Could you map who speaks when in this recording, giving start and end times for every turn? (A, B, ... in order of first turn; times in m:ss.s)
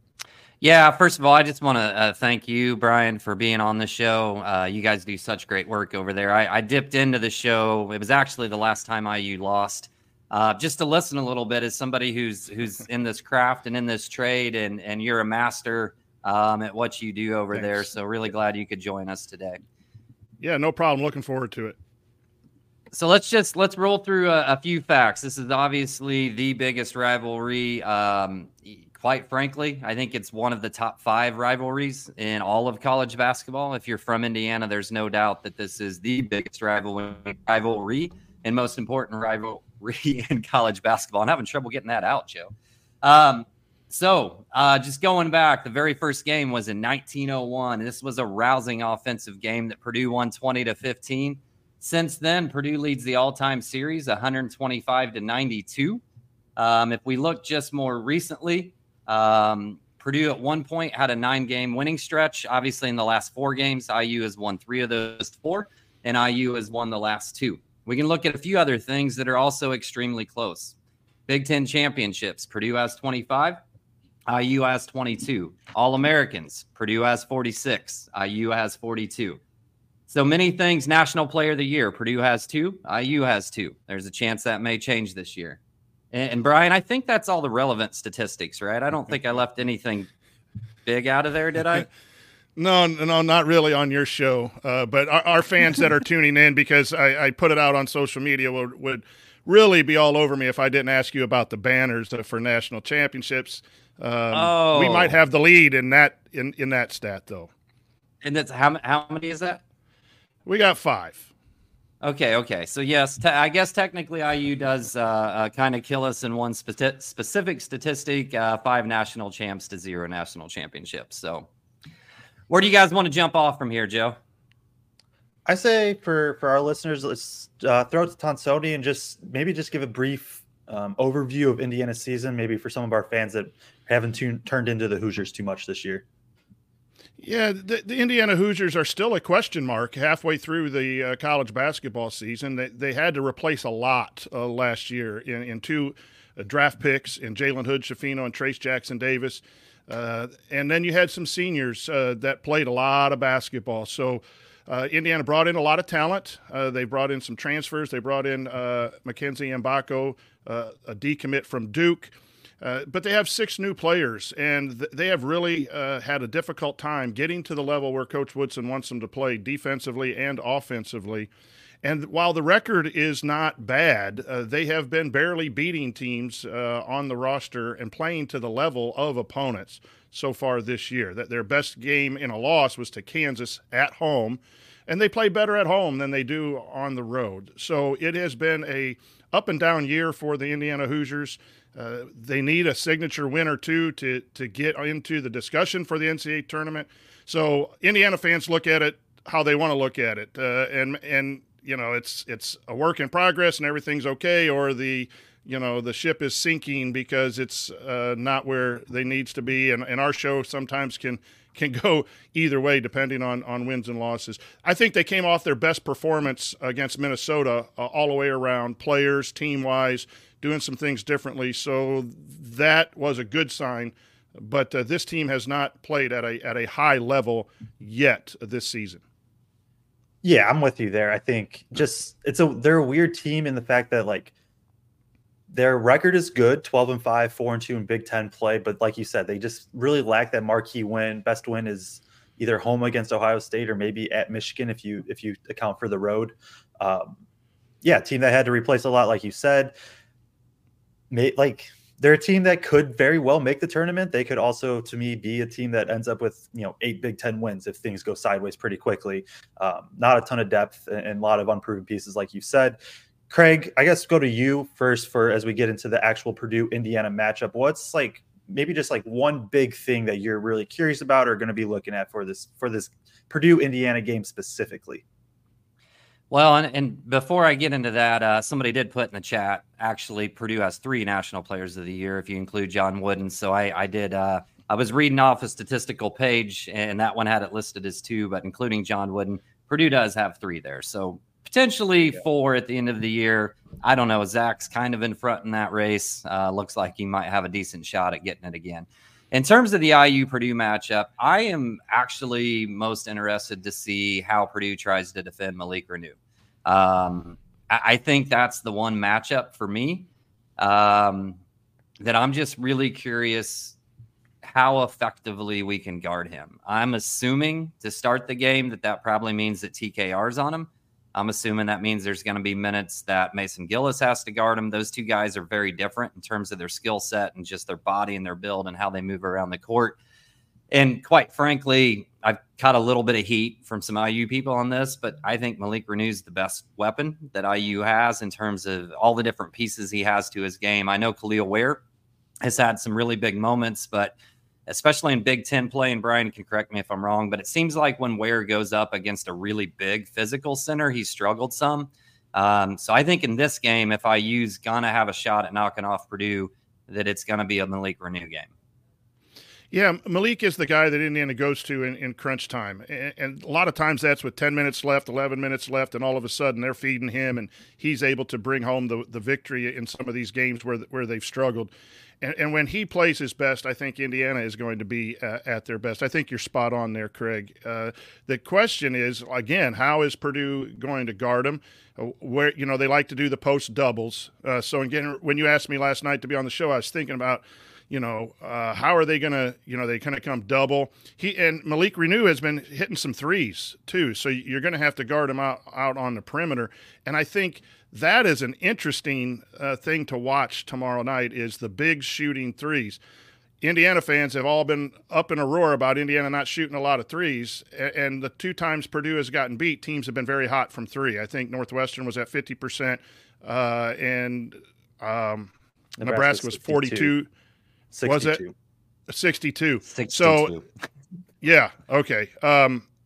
0:00.6-0:19.6 A
0:20.4-0:21.8 B
0:22.9-0:42.5 A
0:43.0-0:56.0 A
0:56.6-1:10.7 A
1:11.3-1:13.6 A
1:14.3-1:19.4 A
1:20.1-1:25.6 A
1:26.1-1:30.1 A
1:30.8-1:31.9 A
1:32.6-1:47.5 B
1:44.3-1:45.1 A
1:48.2-1:49.6 A
1:50.4-1:51.3 B
1:52.0-2:01.5 A
2:02.5-2:04.2 A
2:05.5-2:16.0 C
2:17.2-2:51.3 B
2:51.8-3:49.0 B
3:50.2-3:54.3 C
3:55.5-4:07.2 C
4:07.8-4:09.7 C
4:11.1-4:22.8 C
4:23.3-4:35.0 C
4:36.3-5:10.1 A
5:10.6-5:11.4 A
5:12.0-5:13.8 A
5:14.4-5:30.0 A
5:30.7-5:41.8 A
5:42.4-5:44.1 A
5:44.7-5:58.5 A
5:59.7-6:43.0 B
6:43.6-6:57.3 B
6:56.0-6:57.1 C
6:57.9-6:58.5 C
6:58.0-6:58.4 B
6:59.1-7:00.6 B
6:59.9-7:00.6 A
7:01.4-7:02.8 B